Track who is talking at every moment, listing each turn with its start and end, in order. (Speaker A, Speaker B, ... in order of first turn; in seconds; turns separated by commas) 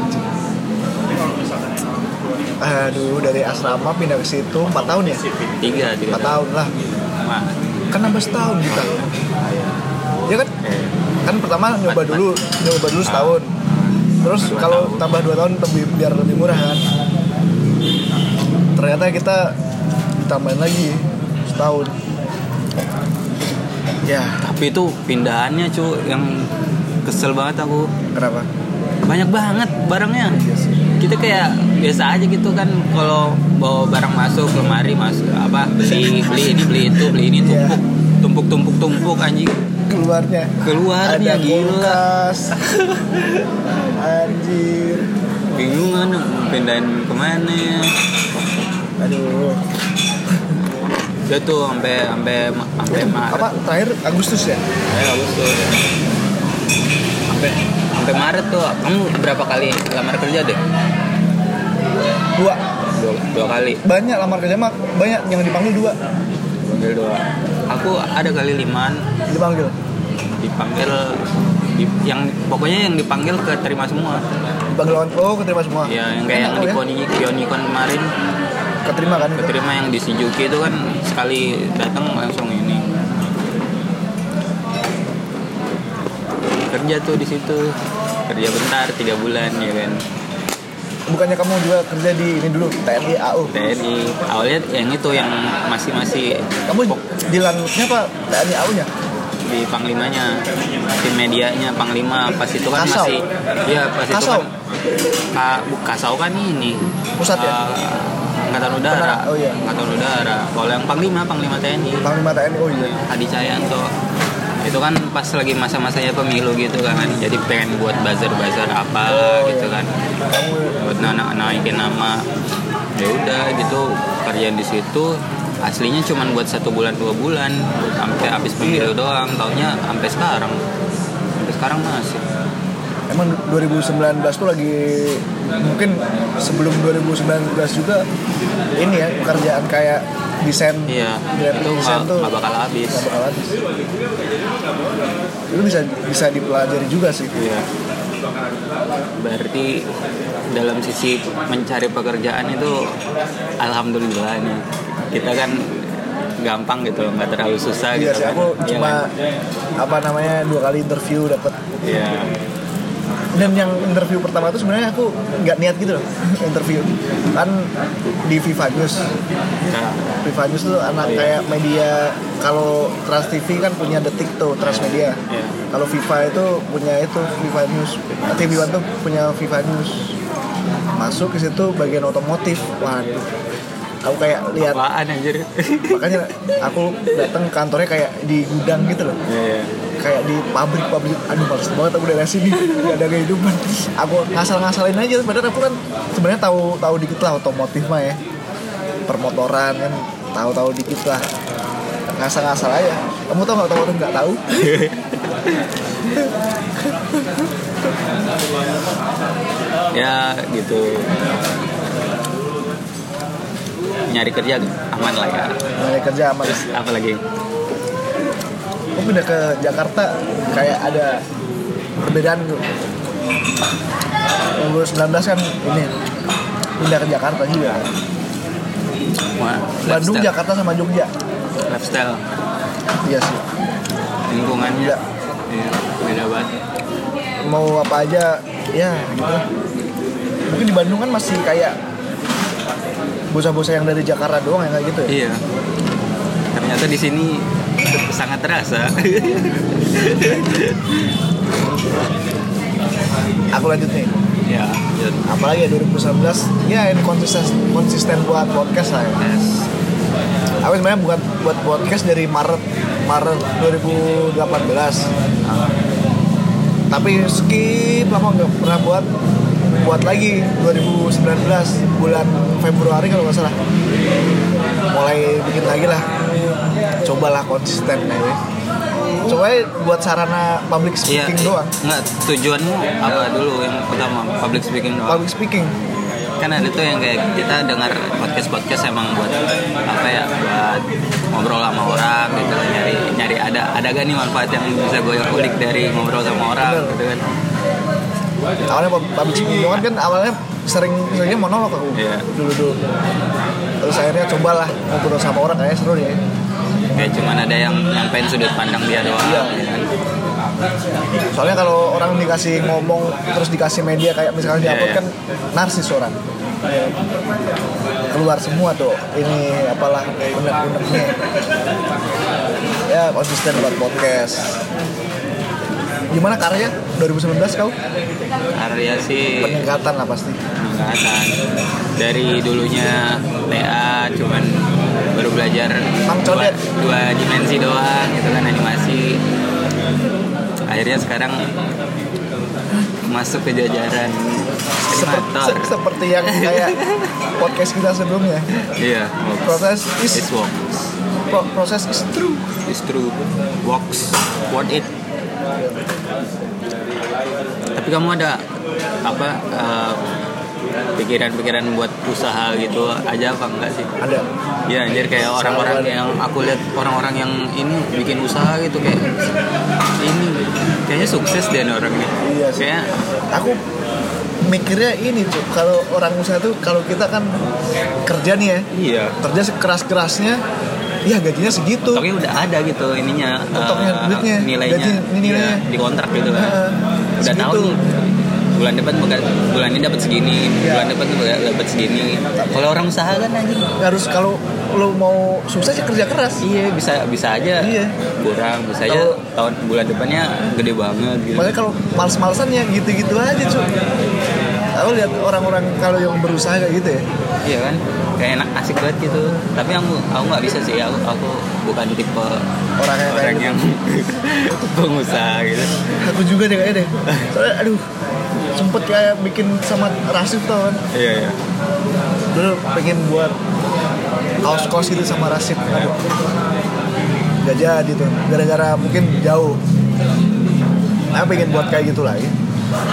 Speaker A: 2.6-5.2, Speaker B: 5.6-6.4, Speaker A: 6.1-6.7, Speaker B: 7.2-7.7, Speaker A: 7.9-9.1, Speaker B: 8.7-9.8, Speaker A: 10.3-10.5, Speaker B: 10.6-11.0, Speaker A: 11.2-13.5, Speaker B: 11.9-12.3, Speaker B: 13.0-15.1, Speaker A: 14.2-16.8, Speaker A: 18.8-19.6, Speaker A: 20.2-22.0, Speaker A: 24.1-24.4, Speaker B: 24.4-26.5, Speaker B: 27.0-27.9, Speaker A: 28.1-28.5, Speaker B: 29.0-30.4, Speaker A: 30.3-30.8, Speaker B: 31.0-39.6, Speaker A: 35.8-37.8, Speaker A: 39.9-42.7, Speaker B: 40.6-42.0, Speaker A: 44.0-45.1, Speaker B: 45.5-48.0, Speaker A: 49.0-49.6, Speaker B: 51.3-53.6, Speaker A: 52.9-54.6, Speaker B: 54.9-55.7, Speaker B: 57.3-60.6, Speaker A: 62.4-62.6, Speaker B: 62.9-63.8, Speaker A: 63.8-66.0, Speaker B: 66.6-69.1, Speaker A: 69.3-69.7, Speaker B: 70.4-71.2, Speaker B: 71.7-74.2, Speaker A: 74.7-76.8, Speaker B: 75.8-78.1, Speaker A: 78.9-79.5, Speaker B: 79.4-82.9, Speaker B: 86.7-87.8, Speaker B: 88.3-90.0, Speaker A: 91.1-93.5, Speaker B: 93.5-97.0, Speaker A: 96.7-98.9, Speaker B: 99.5-100.5, Speaker B: 101.0-104.5, Speaker A: 102.7-103.2, Speaker A: 104.1-104.5, Speaker B: 105.3-112.1, Speaker A: 107.2-107.6, Speaker A: 108.9-109.6, Speaker A: 112.0-113.0, Speaker B: 112.8-113.9, Speaker B: 114.6-119.9, Speaker A: 119.1-119.7, Speaker A: 120.3-120.8, Speaker B: 120.8-122.3, Speaker B: 123.0-130.6, Speaker A: 128.6-128.9, Speaker B: 131.4-132.2, Speaker A: 133.1-138.1, Speaker A: 138.8-142.3, Speaker B: 140.9-143.1, Speaker A: 142.9-143.6, Speaker A: 145.5-147.3, Speaker B: 147.3-147.7, Speaker B: 149.2-149.9, Speaker B: 150.5-153.0, Speaker B: 153.6-159.0, Speaker A: 157.9-159.1, Speaker A: 159.8-161.6, Speaker B: 161.8-162.3, Speaker A: 163.3-167.7, Speaker A: 168.2-169.1, Speaker B: 169.7-170.0, Speaker A: 170.2-175.2, Speaker B: 171.0-171.4, Speaker B: 174.7-175.6, Speaker A: 175.7-180.2, Speaker B: 178.1-178.7, Speaker A: 181.0-183.3, Speaker A: 184.0-184.8, Speaker B: 184.6-186.3, Speaker A: 185.9-189.2, Speaker B: 189.3-189.7, Speaker A: 190.0-198.2, Speaker A: 199.1-201.2, Speaker A: 202.2-204.7, Speaker B: 204.6-205.6, Speaker B: 209.9-211.2, Speaker B: 214.1-215.6, Speaker A: 215.8-216.6, Speaker B: 216.4-217.2, Speaker A: 219.0-221.2, Speaker A: 222.0-222.6, Speaker A: 224.6-225.9, Speaker A: 226.8-227.9, Speaker B: 229.4-230.3, Speaker A: 229.8-231.1, Speaker B: 231.7-232.2, Speaker A: 233.0-233.4, Speaker B: 234.3-235.0, Speaker B: 235.5-236.6, Speaker A: 237.4-239.5, Speaker A: 240.5-241.8, Speaker A: 243.3-245.1, Speaker B: 245.1-245.4, Speaker B: 246.5-251.1, Speaker A: 253.5-254.1, Speaker B: 254.4-255.3, Speaker A: 255.2-259.2, Speaker B: 259.2-259.7, Speaker A: 260.6-265.1, Speaker B: 265.4-265.8, Speaker A: 266.9-269.1, Speaker A: 269.8-273.6, Speaker A: 274.9-276.1, Speaker A: 277.0-278.4, Speaker A: 279.3-281.7, Speaker B: 281.1-285.2, Speaker A: 285.1-285.7, Speaker B: 286.4-297.2, Speaker A: 296.6-297.0, Speaker A: 298.7-302.8, Speaker B: 301.9-302.3, Speaker A: 303.8-306.2, Speaker B: 306.9-309.9, Speaker A: 309.2-309.6, Speaker A: 311.3-316.9, Speaker B: 314.4-315.0, Speaker A: 318.1-321.2, Speaker A: 322.9-324.6, Speaker A: 326.1-327.7, Speaker B: 328.5-329.7, Speaker A: 329.4-330.4, Speaker B: 330.6-331.4, Speaker B: 332.0-339.2, Speaker A: 336.1-336.6, Speaker B: 340.7-341.5, Speaker B: 343.0-347.1, Speaker A: 344.9-346.8, Speaker A: 347.4-348.5, Speaker B: 348.7-350.8, Speaker A: 349.4-350.3, Speaker A: 351.3-352.5, Speaker B: 352.7-354.9, Speaker B: 357.8-358.4, Speaker B: 359.0-360.0, Speaker B: 361.0-363.9, Speaker A: 364.0-364.2, Speaker B: 364.7-369.2, Speaker A: 365.3-366.0, Speaker B: 370.0-372.9, Speaker A: 372.2-372.7, Speaker A: 373.3-373.6, Speaker A: 374.4-377.4, Speaker A: 378.1-378.7, Speaker B: 378.7-379.2, Speaker A: 379.2-380.4, Speaker A: 381.1-382.1, Speaker B: 381.9-386.6, Speaker A: 383.5-385.6, Speaker A: 386.4-387.8, Speaker B: 387.2-393.7, Speaker A: 390.6-390.9, Speaker A: 393.8-396.4, Speaker B: 396.4-401.6, Speaker A: 397.6-397.9, Speaker A: 398.9-399.2, Speaker A: 401.4-403.7, Speaker A: 404.8-407.1, Speaker B: 407.4-412.5, Speaker A: 412.8-413.6, Speaker B: 413.1-415.8, Speaker A: 416.0-417.9, Speaker B: 417.1-417.3, Speaker A: 418.5-420.8, Speaker B: 420.9-421.4, Speaker A: 422.3-423.4, Speaker A: 424.4-426.1, Speaker A: 427.4-429.6, Speaker A: 431.1-432.3